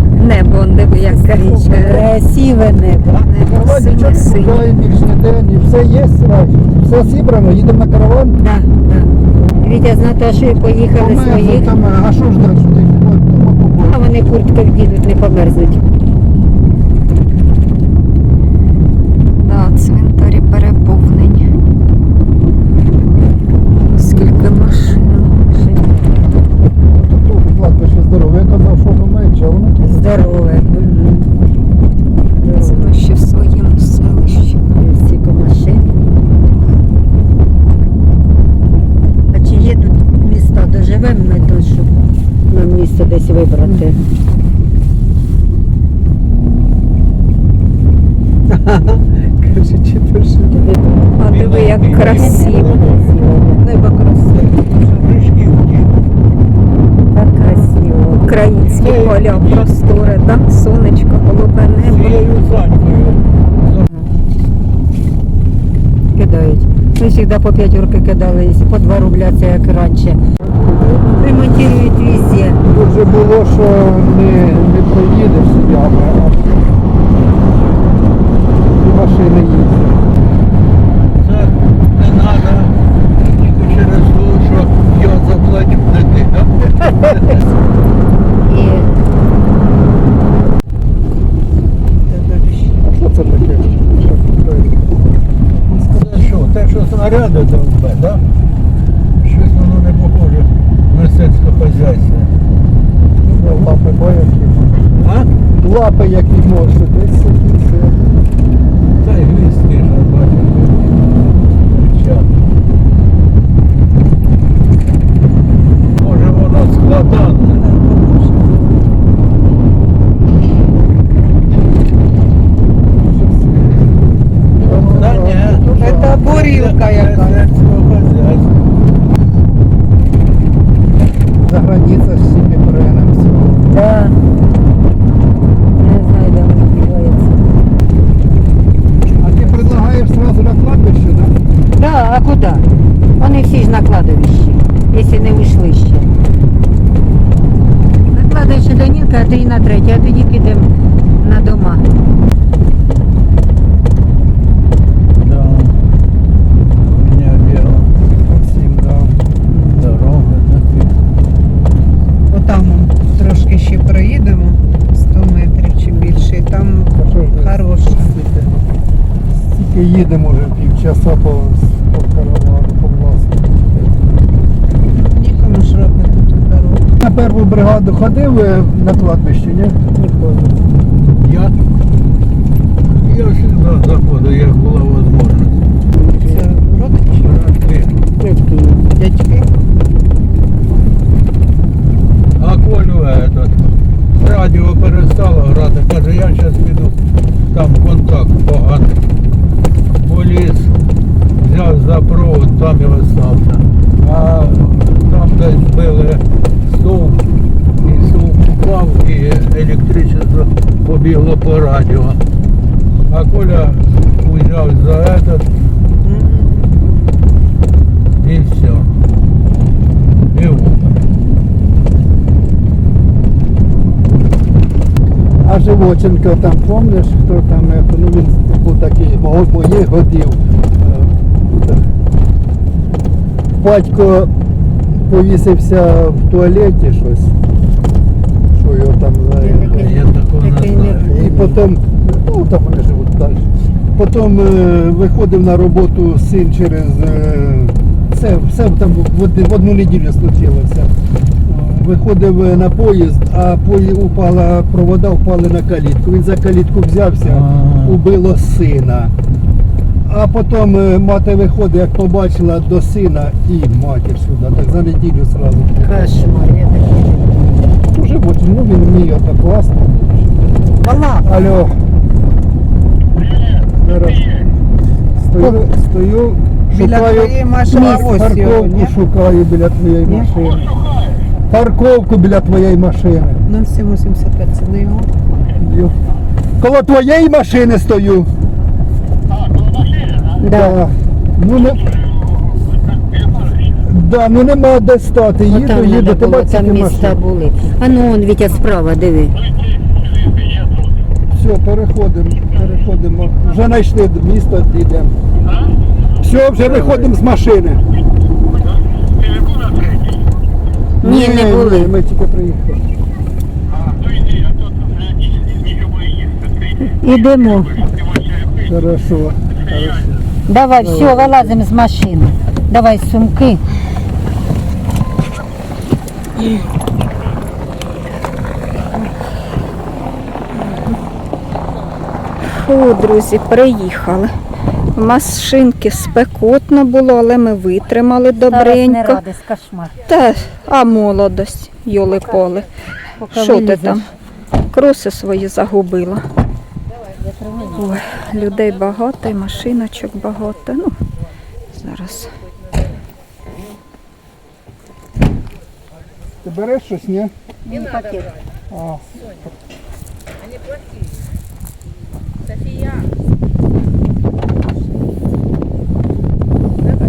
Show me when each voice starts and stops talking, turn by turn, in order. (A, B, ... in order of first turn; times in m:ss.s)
0:00.1-0:02.1 A
0:01.0-0:03.2 B
0:01.4-0:02.0 C
0:03.2-0:08.4 C
0:03.2-0:04.7 A
0:08.4-0:11.7 B
0:11.0-0:14.0 C
0:13.9-0:15.9 B
0:19.3-0:21.5 A
0:23.9-0:25.3 A
0:25.4-0:26.3 B
0:27.0-0:29.8 C
0:29.8-0:31.3 B
0:32.4-0:33.0 B
0:32.5-0:34.7 A
0:34.8-0:35.9 B
0:39.3-0:44.0 B
0:48.5-0:50.6 D
0:50.5-0:50.9 B
0:51.2-0:52.8 A
0:51.3-0:53.2 E
0:52.0-0:53.6 B
0:53.6-0:54.9 D
0:54.3-0:55.9 E
0:57.1-0:58.4 B
0:57.4-1:02.2 A
0:58.4-0:59.7 E
1:01.8-1:03.9 E
1:03.9-1:04.1 B
1:06.1-1:10.2 B
1:10.4-1:11.0 C
1:11.1-1:12.6 B
1:12.7-1:16.6 C
1:18.8-1:20.0 C
1:21.2-1:27.5 E
1:28.4-1:29.0 B
1:31.9-1:32.8 D
1:32.8-1:35.0 C
1:35.7-1:36.4 D
1:35.9-1:38.2 E
1:39.2-1:42.3 E
1:43.2-1:44.8 C
1:45.0-1:45.3 E
1:45.6-1:48.0 C
1:49.0-1:52.3 E
1:56.0-1:57.6 E
1:57.5-1:58.7 D
2:03.0-2:04.0 C
2:04.6-2:06.2 C
2:04.8-2:08.6 E
2:05.6-2:07.5 D
2:11.4-2:13.7 C
2:13.7-2:14.2 B
2:15.8-2:17.5 B
2:19.2-2:21.3 C
2:21.7-2:26.1 B
2:28.1-2:31.8 B
2:35.2-2:35.8 E
2:36.8-2:37.9 E
2:38.2-2:39.4 C
2:39.7-2:40.9 E
2:42.3-2:48.2 D
2:47.0-2:48.5 C
2:49.4-2:53.7 C
2:54.9-2:56.9 D
2:57.0-2:59.8 C
2:59.9-3:00.6 B
3:01.2-3:01.5 E
3:02.9-3:05.6 E
3:05.9-3:06.5 B
3:06.1-3:07.3 D
3:07.1-3:08.0 E
3:08.2-3:08.9 B
3:08.9-3:09.5 D
3:12.4-3:17.0 E
3:17.5-3:19.0 E
3:20.0-3:20.8 E
3:21.4-3:27.3 E
3:27.8-3:32.2 E
3:33.1-3:35.5 E
3:36.0-3:36.8 D
3:38.2-3:38.9 E
3:40.3-3:41.0 E
3:45.4-3:51.9 C
3:53.6-3:54.3 C
3:55.0-3:57.3 C
3:58.5-4:00.0 C
3:59.4-4:01.6 B
3:59.7-4:01.1 E
4:01.1-4:10.9 C
4:11.4-4:19.1 C
4:17.2-4:18.0 E
4:20.0-4:26.4 C
4:25.8-4:27.5 B
4:27.8-4:31.8 C
4:30.8-4:31.3 D
4:33.6-4:34.4 C
4:35.2-4:40.7 C
4:35.4-4:35.6 D
4:36.7-4:38.9 D
4:40.0-4:40.3 D
4:41.5-4:43.4 C
4:43.5-4:45.1 D
4:45.6-4:46.0 C
4:46.6-4:48.3 C
4:50.4-4:50.8 B
4:50.5-4:51.9 C
4:53.8-4:57.2 C
4:55.5-4:59.4 B
5:01.3-5:05.2 C
5:06.2-5:07.8 C
5:06.6-5:07.1 E
5:11.0-5:12.8 C
5:11.0-5:11.9 B
5:16.8-5:17.9 B
5:18.6-5:20.2 C
5:20.5-5:23.6 B
5:20.8-5:21.5 C
5:32.4-5:34.3 A
5:34.9-5:39.2 A
5:38.4-5:40.0 B
5:40.0-5:42.7 A
5:43.2-5:44.0 B
5:43.3-5:44.0 A
5:44.7-5:46.2 A
5:47.1-5:48.0 B
5:47.7-5:51.0 A
5:51.7-5:52.3 A
5:56.4-5:57.3 C
5:57.6-5:58.4 B
5:58.7-5:59.2 C